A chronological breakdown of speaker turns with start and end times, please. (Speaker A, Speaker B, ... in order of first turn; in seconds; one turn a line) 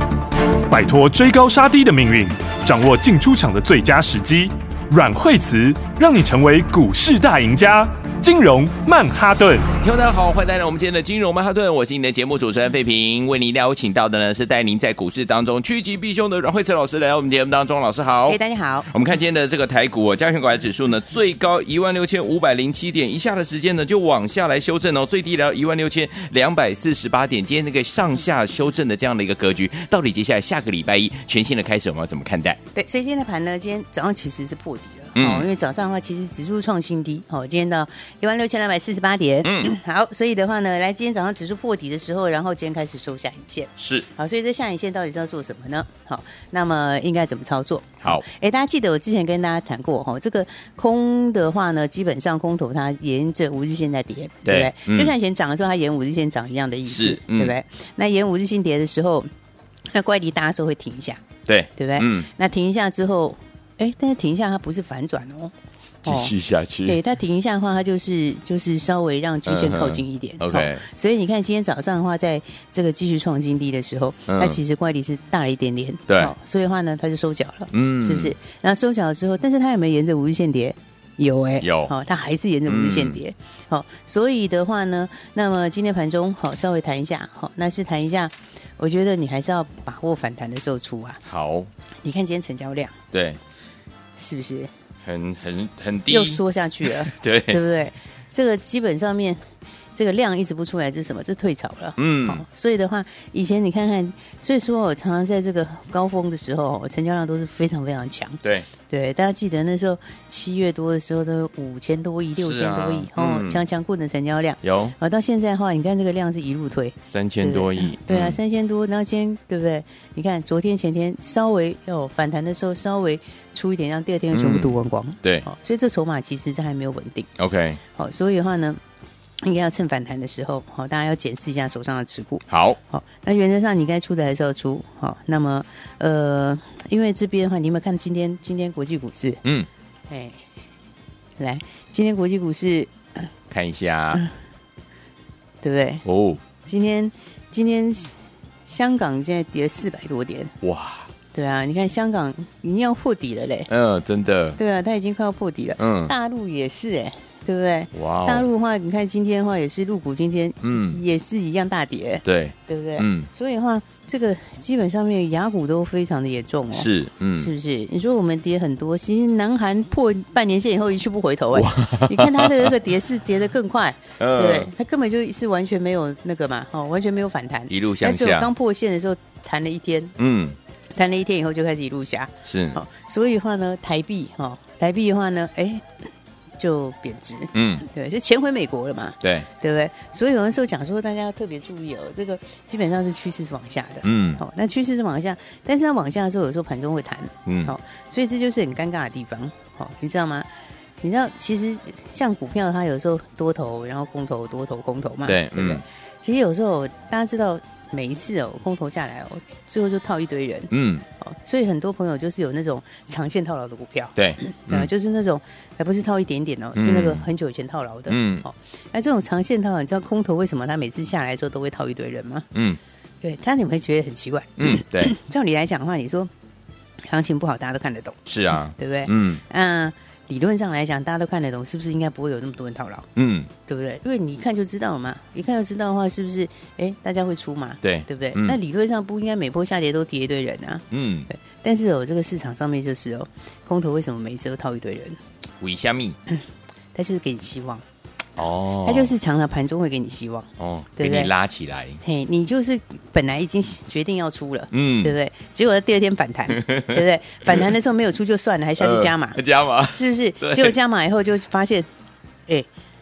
Speaker A: 0.7-9.7
Speaker B: 9.8-32.6
Speaker C: 18.3-18.9
Speaker C: 32.7-59.3
Speaker B: 35.1-35.5
Speaker B: 39.4-39.7
Speaker B: 43.8-44.1
Speaker B: 54.5-55.1
Speaker B: 56.8-57.5
Speaker C: 59.9-61.2
Speaker B: 61.5-62.3
Speaker C: 61.8-65.5
Speaker B: 66.0-67.0
Speaker C: 66.0-66.3
Speaker C: 66.8-91.2
Speaker B: 69.4-70.8
Speaker B: 74.3-74.6
Speaker B: 76.1-76.3
Speaker B: 77.7-78.3
Speaker B: 81.6-81.9
Speaker B: 82.7-83.2
Speaker B: 91.2-91.7
Speaker C: 92.0-93.0
Speaker B: 93.1-93.4
Speaker C: 94.2-94.7
Speaker B: 95.0-97.6
Speaker C: 96.1-99.4
Speaker C: 100.0-127.3
Speaker B: 102.0-102.4
Speaker B: 108.4-108.7
Speaker B: 112.3-113.6
Speaker B: 114.6-114.9
Speaker B: 117.0-118.4
Speaker B: 124.3-125.5
Speaker B: 127.4-127.8
Speaker C: 127.9-128.8
Speaker C: 129.4-139.4
Speaker B: 132.5-132.8
Speaker C: 140.1-140.4
Speaker C: 141.4-143.3
Speaker B: 143.5-144.2
Speaker C: 145.6-146.0
Speaker B: 146.0-146.4
Speaker C: 146.6-150.5
Speaker B: 150.6-151.1
Speaker C: 151.3-153.7
Speaker B: 153.7-154.6
Speaker C: 154.6-180.2
Speaker B: 155.8-156.1
Speaker B: 157.9-158.5
Speaker B: 160.6-161.0
Speaker B: 162.2-163.3
Speaker B: 166.7-167.5
Speaker B: 171.5-172.7
Speaker B: 174.2-174.7
Speaker B: 177.7-178.5
Speaker B: 180.2-180.6
Speaker C: 180.9-185.9
Speaker B: 182.4-182.8
Speaker C: 186.6-200.4
Speaker B: 187.5-187.8
Speaker B: 189.2-189.5
Speaker B: 194.0-194.4
Speaker B: 197.4-197.7
Speaker C: 201.0-222.5
Speaker B: 205.2-205.8
Speaker B: 210.7-211.0
Speaker B: 214.2-214.9
Speaker B: 216.7-217.2
Speaker B: 218.1-218.4
Speaker B: 222.5-222.8
Speaker C: 223.2-226.3
Speaker B: 224.6-225.1
Speaker C: 227.1-233.1
Speaker B: 228.3-229.4
Speaker B: 233.2-233.5
Speaker C: 233.7-245.2
Speaker B: 237.8-238.6
Speaker B: 240.9-241.3
Speaker B: 245.6-246.2
Speaker C: 246.9-247.8
Speaker B: 248.4-249.2
Speaker C: 248.8-251.3
Speaker B: 250.6-252.0
Speaker C: 252.0-259.4
Speaker B: 254.7-255.1
Speaker B: 256.5-257.7
Speaker B: 258.8-260.7
Speaker C: 259.9-261.9